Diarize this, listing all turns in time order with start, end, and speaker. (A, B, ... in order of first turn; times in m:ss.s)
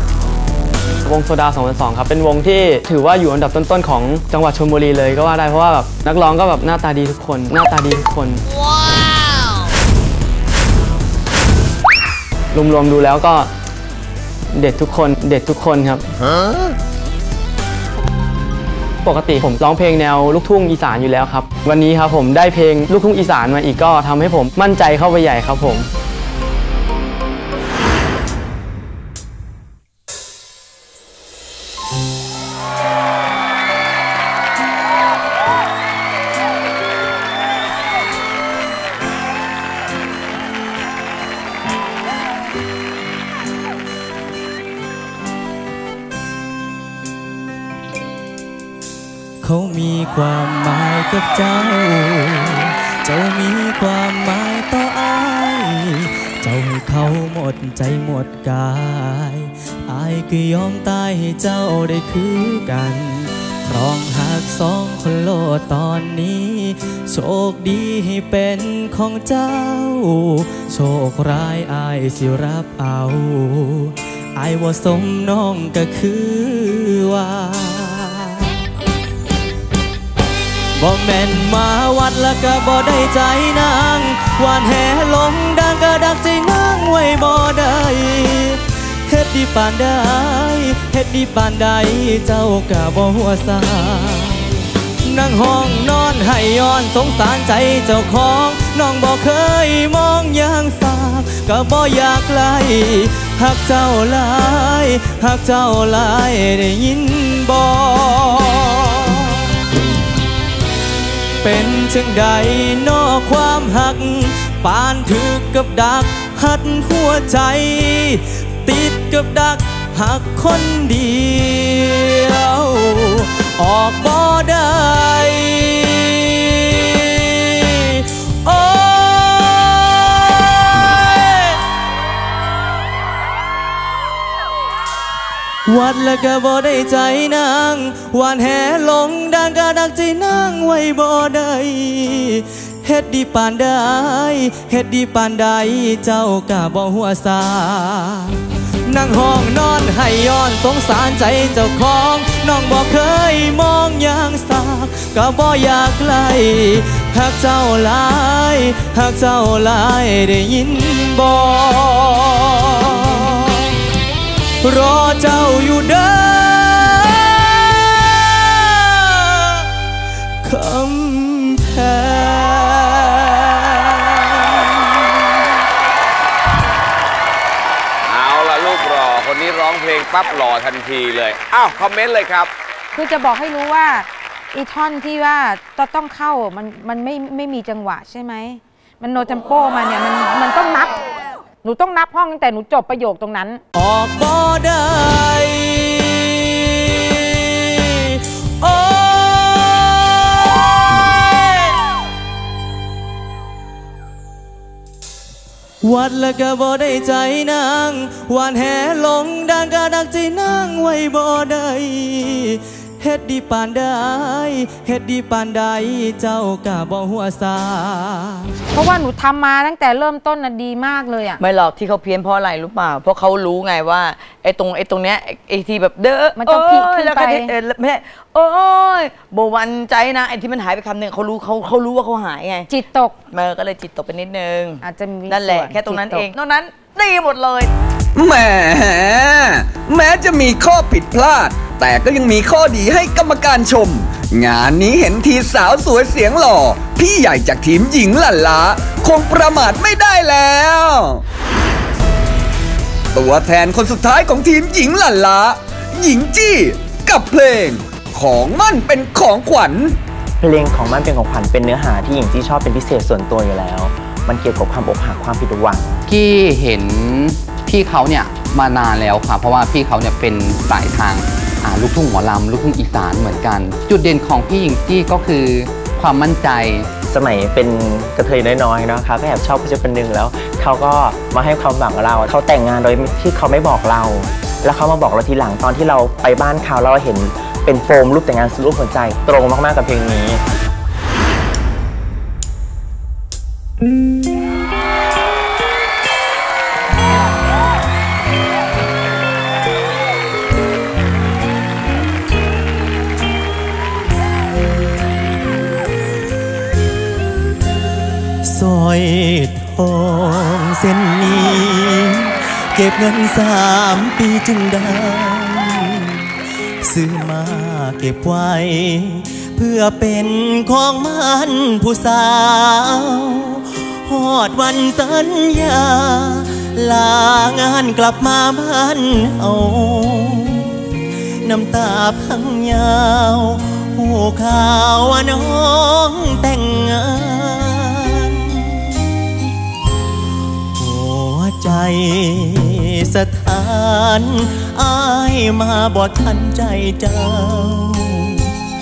0:01.0-0:08.4 A
0:12.5-0:13.5 A
0:14.5-0:16.1 A
0:19.0-0:25.9 A
0:49.4-1:18.5 B
1:20.8-1:49.5 B
1:51.4-2:11.6 B
2:15.7-2:43.8 B
2:44.6-2:49.6 B
2:50.4-2:55.3 B
2:58.1-3:02.5 C
3:02.9-3:11.0 D
3:11.6-3:13.6 D
3:13.8-3:21.8 B
3:25.8-3:38.5 B
3:38.7-3:41.4 D
3:41.4-3:52.7 E
3:46.4-3:47.5 D
3:52.7-3:53.2 D
3:53.3-3:57.7 E
3:54.8-3:56.3 D
3:58.2-4:11.2 F
4:13.1-4:20.0 F
4:20.4-4:26.0 G
4:26.1-4:36.9 H
4:37.1-4:50.4 G
5:08.4-5:16.2 I
5:16.8-5:30.7 I
5:31.4-5:38.9 I
5:40.8-5:48.4 I